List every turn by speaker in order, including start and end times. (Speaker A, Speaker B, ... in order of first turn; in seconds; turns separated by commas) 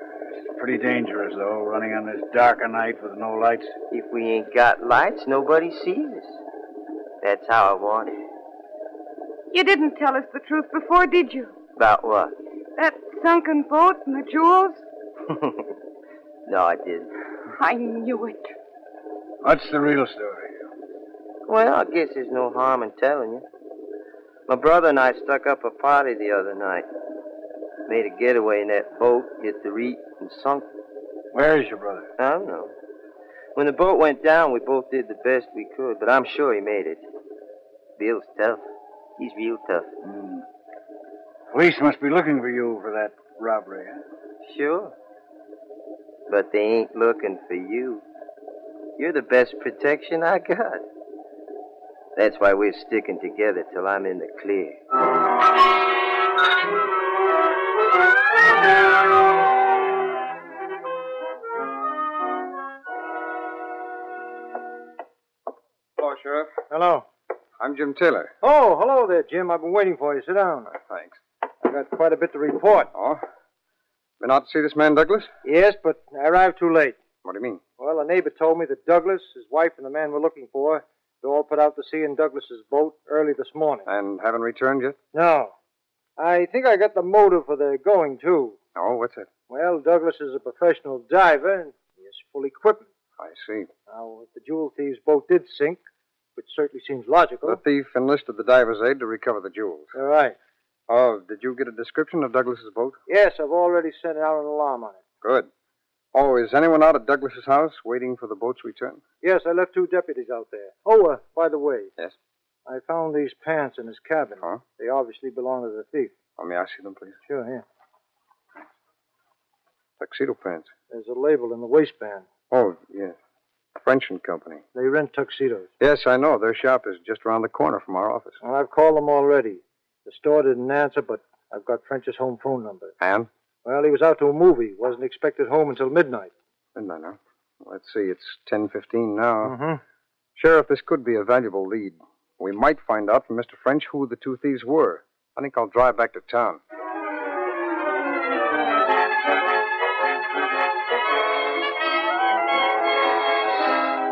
Speaker A: 0.4-3.7, Speaker B: 3.9-6.4, Speaker B: 7.2-8.1, Speaker C: 9.5-11.5, Speaker B: 11.8-12.3, Speaker C: 12.8-14.8, Speaker B: 15.3-15.7, Speaker B: 16.4-17.1, Speaker C: 17.6-18.5, Speaker A: 19.4-20.6, Speaker B: 21.5-23.4, Speaker B: 24.5-26.9, Speaker B: 27.9-30.6, Speaker A: 31.3-32.1, Speaker B: 32.2-32.7, Speaker B: 33.5-37.0, Speaker B: 38.0-38.6, Speaker B: 39.2-39.9, Speaker A: 40.0-40.4, Speaker A: 41.5-44.0, Speaker B: 44.4-44.9, Speaker B: 46.3-48.0, Speaker B: 49.0-50.8, Speaker B: 52.1-54.8, Speaker D: 66.0-66.5, Speaker E: 66.7-67.0, Speaker D: 67.6-68.3, Speaker E: 68.4-70.7, Speaker D: 70.7-71.2, Speaker E: 71.6-72.9, Speaker D: 72.9-73.2, Speaker D: 74.2-75.3, Speaker E: 75.4-77.0, Speaker D: 77.2-77.6, Speaker E: 77.8-83.9, Speaker D: 83.8-85.0, Speaker E: 85.1-85.5, Speaker E: 86.2-88.6, Speaker D: 88.7-89.3, Speaker E: 89.5-92.9, Speaker D: 93.2-93.7, Speaker E: 93.9-95.8, Speaker E: 96.3-97.6, Speaker D: 97.4-99.9, Speaker E: 99.9-100.3, Speaker D: 100.9-103.0, Speaker E: 103.1-105.0, Speaker D: 105.2-105.5, Speaker D: 106.1-109.0, Speaker E: 109.2-111.9, Speaker E: 112.7-116.1, Speaker D: 116.4-117.2, Speaker E: 117.2-117.6, Speaker D: 120.0-120.7, Speaker E: 120.9-122.3, Speaker D: 122.5-123.2, Speaker D: 123.8-124.7, Speaker E: 124.7-125.7, Speaker D: 125.8-128.4, Speaker E: 128.4-132.9, Speaker D: 133.0-133.3, Speaker E: 133.6-136.3, Speaker D: 136.7-139.5, Speaker E: 139.4-139.8, Speaker D: 140.3-146.6